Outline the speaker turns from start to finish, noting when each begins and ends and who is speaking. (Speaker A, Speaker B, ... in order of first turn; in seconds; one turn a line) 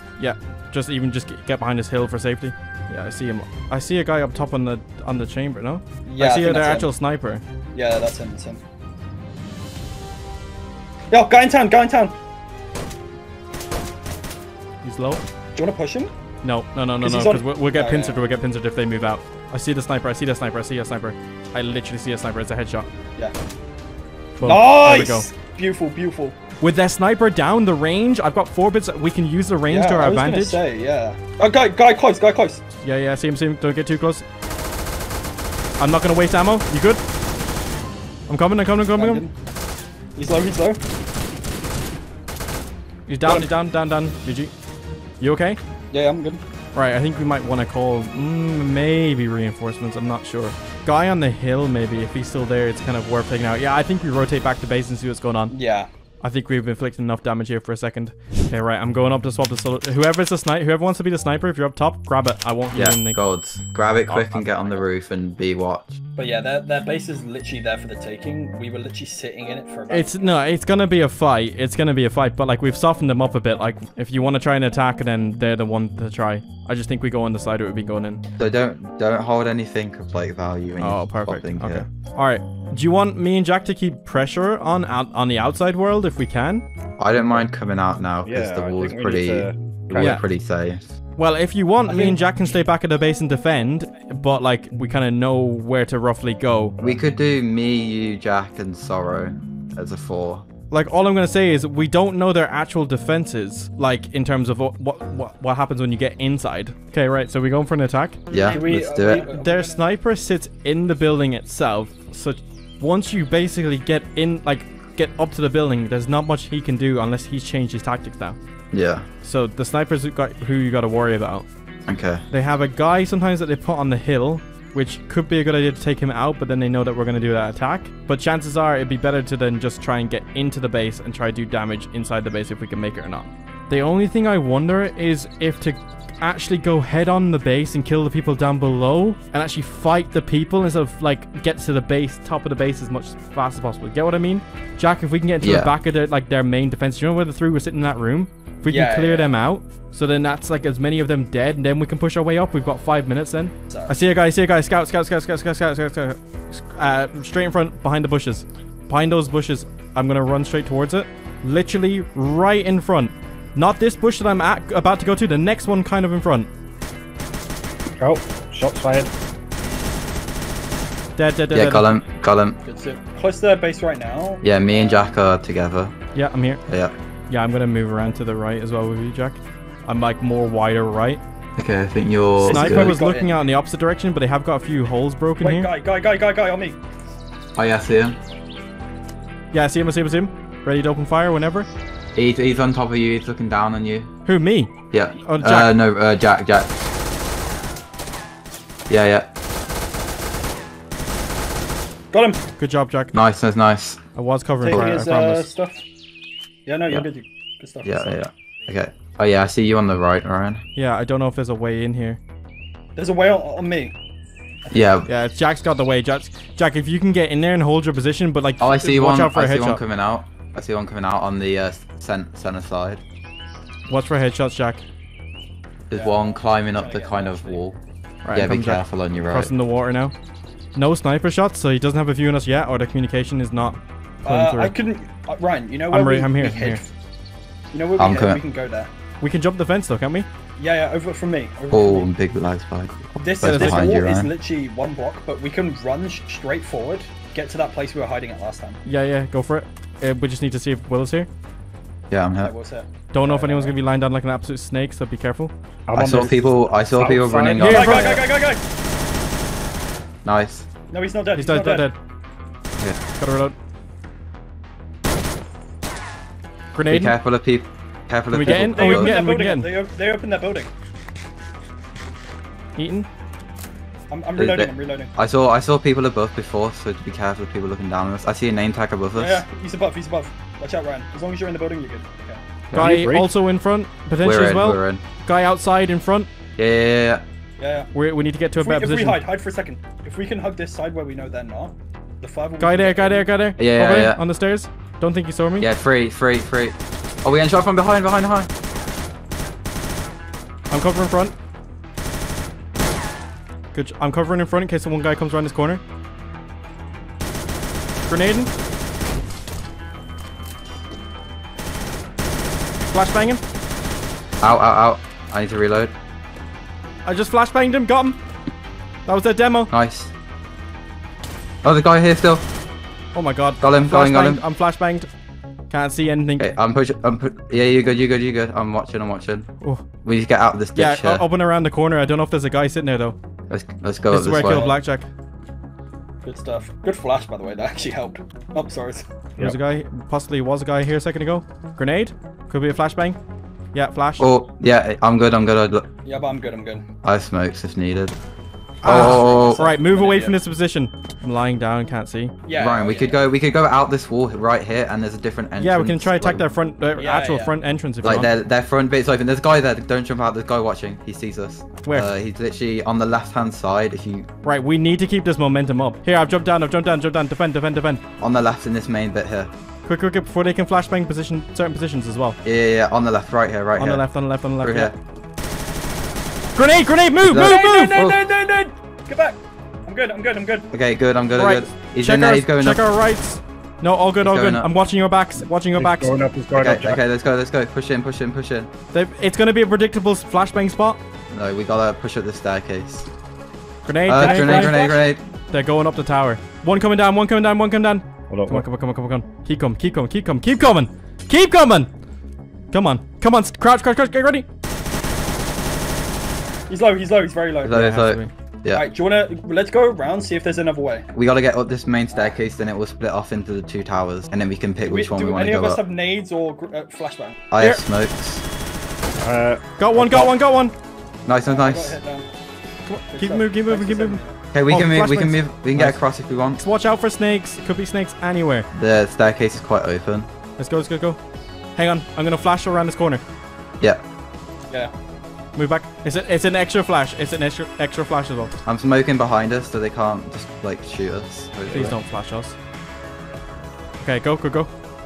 Speaker A: 0.2-7.4
Speaker B: 6.0-6.9
Speaker B: 7.7-8.6
Speaker B: 11.1-12.1
Speaker A: 14.8-15.2
Speaker B: 15.5-16.1
Speaker A: 16.4-22.9
Speaker B: 17.0-18.2
Speaker A: 24.4-25.3
Speaker B: 24.4-26.4
Speaker A: 26.6-30.6
Speaker B: 29.7-32.6
Speaker A: 32.8-34.2
Speaker A: 35.8-37.0
Speaker A: 38.3-39.2
Speaker B: 38.9-39.3
Speaker B: 40.1-40.8
Speaker A: 43.1-44.5
Speaker A: 45.2-45.6
Speaker B: 45.9-46.4
Speaker A: 46.7-55.5
Speaker B: 55.5-55.9
Speaker A: 56.2-63.2
Speaker C: 62.7-66.0
Speaker A: 64.1-64.5
Speaker B: 66.2-70.1
Speaker A: 69.9-78.2
Speaker C: 78.4-81.9
Speaker A: 80.8-86.7
Speaker C: 87.0-90.8
Speaker D: 88.2-90.2
Speaker A: 91.2-96.7
Speaker B: 91.8-92.3
Speaker C: 96.8-100.4
Speaker A: 100.7-108.2
Speaker C: 108.3-109.3
Speaker B: 108.3-109.8
Speaker A: 109.0-118.4
Speaker C: 118.7-119.0
Speaker A: 119.2-121.5
Speaker C: 121.8-122.2
Speaker A: 122.3-166.5
Speaker C: 145.4-145.7
Speaker B: 148.7-149.3
Speaker B: 153.7-153.9
Speaker D: 168.0-169.1
Speaker A: 171.2-171.8
Speaker C: 171.5-172.6
Speaker B: 172.6-175.2
Speaker C: 174.4-175.9
Speaker A: 176.1-176.6
Speaker C: 176.7-176.9
Speaker A: 177.3-181.2
Speaker C: 181.6-183.0
Speaker A: 182.4-185.7
Speaker B: 182.4-183.4
Speaker B: 185.4-186.8
Speaker C: 187.5-188.2
Speaker A: 189.5-191.7
Speaker C: 192.1-194.1
Speaker A: 194.2-195.7
Speaker C: 194.9-196.7
Speaker C: 198.9-199.3
Speaker B: 202.1-202.4
Speaker A: 202.6-203.1
Speaker C: 203.1-204.0
Speaker A: 204.1-205.5
Speaker B: 204.6-205.8
Speaker B: 206.7-208.2
Speaker C: 207.8-210.6
Speaker A: 210.8-212.2
Speaker B: 212.9-213.9
Speaker B: 214.6-215.0
Speaker C: 214.7-215.1
Speaker A: 215.1-219.8
Speaker C: 218.6-223.0
Speaker A: 223.9-224.8
Speaker C: 225.9-227.8
Speaker B: 225.9-227.6
Speaker A: 228.2-230.1
Speaker C: 228.3-229.5
Speaker A: 230.7-234.7
Speaker B: 234.2-236.9
Speaker A: 235.9-236.8
Speaker B: 237.7-238.9
Speaker C: 238.0-238.4
Speaker A: 239.2-240.3
Speaker B: 240.6-242.1
Speaker C: 241.7-244.3
Speaker B: 243.2-248.8
Speaker A: 243.4-243.8
Speaker A: 248.8-251.3
Speaker C: 252.1-252.5
Speaker B: 252.4-253.8
Speaker A: 253.1-255.5
Speaker D: 255.9-257.7
Speaker C: 255.9-258.2
Speaker A: 257.6-258.2
Speaker B: 257.6-258.6
Speaker C: 260.2-260.7
Speaker B: 260.9-261.9
Speaker A: 261.4-261.9
Speaker A: 263.2-263.5
Speaker A: 266.7-267.1
Speaker C: 266.9-269.2
Speaker A: 268.3-269.7
Speaker B: 268.4-270.7
Speaker A: 272.8-273.1
Speaker B: 274.1-275.1
Speaker C: 274.3-279.4
Speaker B: 279.1-282.4
Speaker C: 282.7-283.0
Speaker A: 282.7-286.3
Speaker D: 282.7-283.3
Speaker C: 284.2-285.0
Speaker C: 286.6-287.2
Speaker B: 287.6-287.9
Speaker A: 287.9-289.2
Speaker B: 288.5-293.3
Speaker A: 292.6-295.7
Speaker C: 293.6-294.2
Speaker C: 295.6-298.5
Speaker A: 300.7-301.3
Speaker A: 303.7-305.8
Speaker A: 308.1-308.5
Speaker A: 312.9-313.4
Speaker C: 314.4-315.9
Speaker A: 317.1-318.2
Speaker A: 319.1-319.7
Speaker C: 319.7-320.1
Speaker C: 321.6-322.4
Speaker A: 323.1-325.1
Speaker C: 323.6-324.4
Speaker A: 325.7-326.5
Speaker C: 326.4-329.5
Speaker C: 330.0-331.2
Speaker A: 330.8-333.1
Speaker C: 333.5-334.7
Speaker A: 334.1-335.1
Speaker B: 334.3-334.8
Speaker B: 336.2-339.1
Speaker A: 339.4-343.2
Speaker A: 343.7-344.3
Speaker C: 344.2-345.9
Speaker B: 346.0-346.8
Speaker C: 347.0-348.1
Speaker A: 348.8-352.3
Speaker C: 348.8-349.6
Speaker B: 348.9-350.4
Speaker B: 352.4-353.2
Speaker C: 352.5-356.4
Speaker A: 355.6-358.3
Speaker B: 356.9-357.6
Speaker C: 358.0-364.3
Speaker A: 361.8-362.1
Speaker A: 364.4-368.0
Speaker C: 368.2-369.5
Speaker A: 369.8-372.4
Speaker C: 372.4-374.1
Speaker A: 373.8-374.9
Speaker C: 374.6-374.9
Speaker A: 376.6-378.0
Speaker C: 377.2-378.2
Speaker B: 377.3-380.7
Speaker C: 380.7-382.8
Speaker A: 381.4-386.2
Speaker C: 384.2-384.7
Speaker D: 385.7-387.0
Speaker C: 386.5-388.7
Speaker A: 388.9-391.0
Speaker C: 391.3-393.1
Speaker A: 393.8-394.9
Speaker C: 394.0-395.2
Speaker B: 394.1-395.0
Speaker A: 395.5-401.9
Speaker D: 398.3-398.6
Speaker A: 402.7-404.4
Speaker B: 406.7-407.9
Speaker C: 407.6-408.9
Speaker A: 407.7-408.3
Speaker B: 408.7-411.1
Speaker C: 411.1-415.8
Speaker B: 412.1-412.4
Speaker B: 414.8-417.4
Speaker C: 417.5-418.4
Speaker D: 419.2-420.3
Speaker A: 419.8-420.7
Speaker C: 421.2-422.0
Speaker B: 421.4-422.3
Speaker A: 422.9-426.0
Speaker B: 423.1-424.4
Speaker C: 424.5-426.6
Speaker A: 426.6-428.7
Speaker C: 428.7-430.3
Speaker A: 430.6-431.2
Speaker A: 431.8-433.2
Speaker A: 435.6-438.5
Speaker C: 438.6-441.9
Speaker A: 441.7-442.5
Speaker A: 444.0-444.7